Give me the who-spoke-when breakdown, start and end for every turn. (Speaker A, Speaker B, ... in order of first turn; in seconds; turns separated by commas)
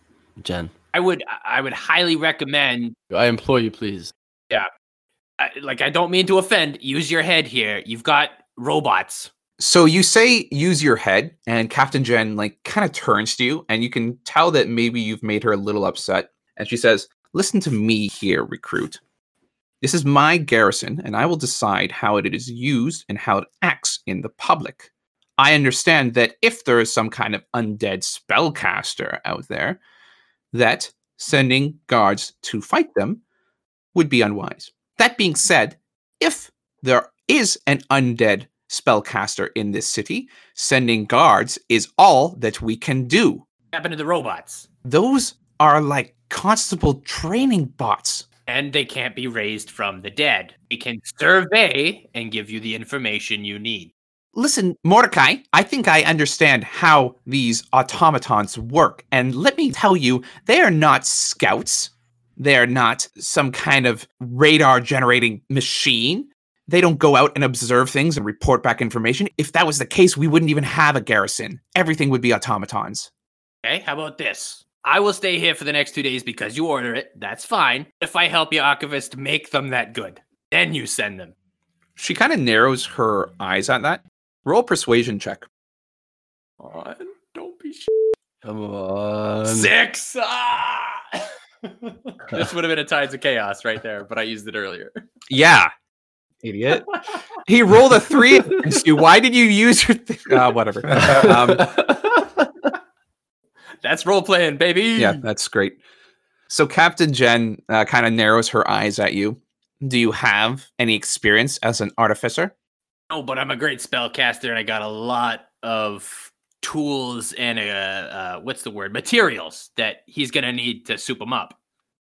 Speaker A: 0.4-0.7, Speaker B: 0.9-3.0, Speaker A: 3.1-4.1, Speaker B: 5.4-9.3, Speaker C: 9.6-19.0, Speaker C: 19.8-29.8, Speaker C: 30.5-33.2, Speaker C: 33.9-43.4, Speaker B: 43.7-44.7, Speaker C: 44.9-48.3, Speaker B: 48.5-53.9, Speaker C: 54.4-73.1, Speaker B: 73.6-81.3, Speaker C: 82.0-85.5, Speaker B: 86.6-87.9, Speaker A: 88.4-89.7, Speaker B: 89.5-95.0, Speaker C: 95.3-95.7, Speaker C: 96.4-96.9, Speaker C: 97.4-101.8, Speaker B: 103.8-105.2, Speaker C: 105.0-105.8, Speaker C: 106.5-112.5, Speaker B: 113.1-121.6